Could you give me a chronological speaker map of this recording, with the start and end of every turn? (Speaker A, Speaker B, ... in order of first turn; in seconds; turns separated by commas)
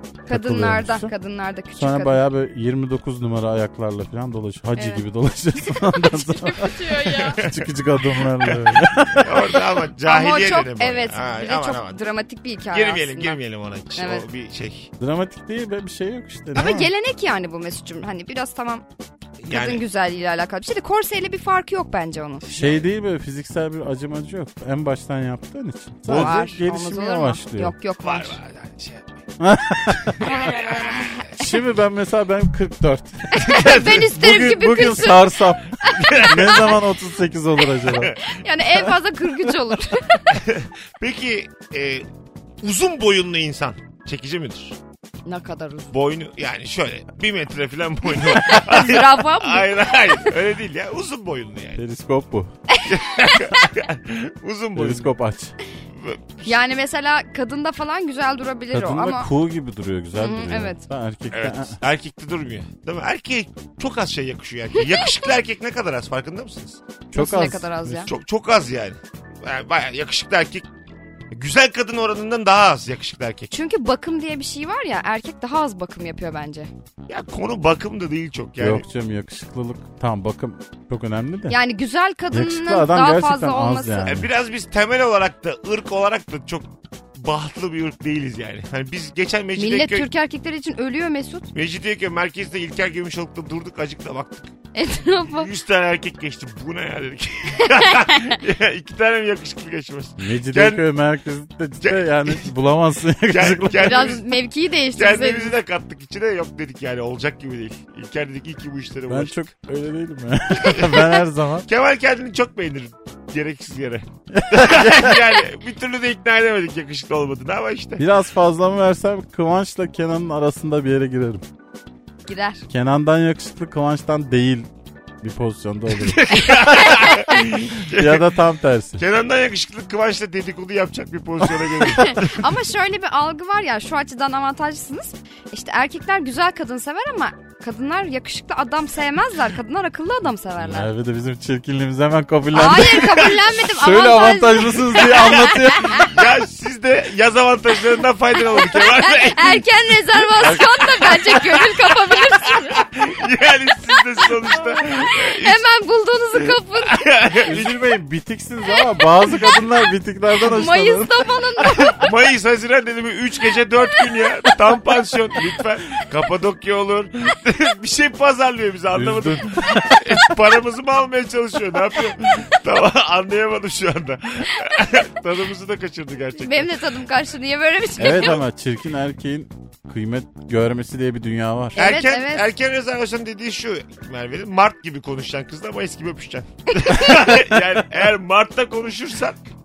Speaker A: 0.2-1.1, Speaker B: 0.3-2.2, Speaker A: 1.8-9.6, Speaker B: 4.8-5.0, Speaker B: 6.2-7.4, Speaker C: 7.2-7.6, Speaker C: 8.4-12.0, Speaker B: 10.1-13.4, Speaker C: 12.7-14.9, Speaker B: 14.0-14.2, Speaker A: 15.0-16.9, Speaker B: 16.5-18.8, Speaker C: 19.4-19.8, Speaker B: 19.5-22.4, Speaker A: 22.5-27.7, Speaker C: 26.1-26.6, Speaker B: 26.1-28.4, Speaker C: 28.0-29.1, Speaker A: 29.4-30.4, Speaker C: 29.9-31.3, Speaker B: 30.2-31.2, Speaker A: 31.4-33.4, Speaker B: 33.3-36.8, Speaker C: 33.4-34.1, Speaker A: 34.0-38.1, Speaker C: 35.8-36.7, Speaker C: 37.9-38.3, Speaker B: 38.2-40.4, Speaker C: 40.3-42.0, Speaker C: 42.6-44.8, Speaker B: 45.2-45.9, Speaker C: 45.9-51.8, Speaker B: 48.2-50.3, Speaker A: 51.8-52.5, Speaker B: 52.7-53.0, Speaker C: 52.9-55.1, Speaker A: 54.8-55.5, Speaker C: 55.9-56.5, Speaker B: 56.4-59.3, Speaker A: 58.7-61.8, Speaker B: 60.1-60.8, Speaker C: 61.3-66.8, Speaker A: 67.1-68.1, Speaker B: 67.1-68.1, Speaker C: 68.1-70.7, Speaker C: 71.3-73.5, Speaker B: 73.5-76.7, Speaker C: 77.1-78.8, Speaker A: 78.6-81.6, Speaker B: 81.5-84.1, Speaker A: 82.3-84.3, Speaker C: 84.0-90.1, Speaker B: 89.6-91.5, Speaker C: 91.5-94.5, Speaker B: 94.7-95.5, Speaker C: 95.3-100.8, Speaker B: 97.6-98.4, Speaker A: 100.2-104.2, Speaker C: 101.8-102.5, Speaker C: 103.3-104.2, Speaker B: 103.7-105.5, Speaker C: 105.0-109.5, Speaker A: 109.1-111.7, Speaker C: 110.6-111.1, Speaker C: 111.7-118.0, Speaker A: 114.3-115.2, Speaker A: 118.0-121.4, Speaker B: 122.2-122.7, Speaker A: 122.7-124.7, Speaker A: 125.2-129.0, Speaker C: 125.9-128.3, Speaker C: 129.0-132.6, Speaker B: 131.8-140.9, Speaker A: 140.6-146.1, Speaker B: 142.5-146.2, Speaker C: 146.0-149.6, Speaker B: 148.5-152.8, Speaker A: 150.4-150.7, Speaker C: 150.6-155.6, Speaker B: 155.3-157.0, Speaker C: 156.8-157.8, Speaker A: 157.4-161.3, Speaker B: 159.3-159.6, Speaker B: 160.4-162.1, Speaker C: 161.6-176.8, Speaker A: 168.9-170.2, Speaker B: 176.3-178.4, Speaker A: 178.0-181.9, Speaker B: 181.8-182.5, Speaker C: 181.8-189.4, Speaker B: 186.8-187.3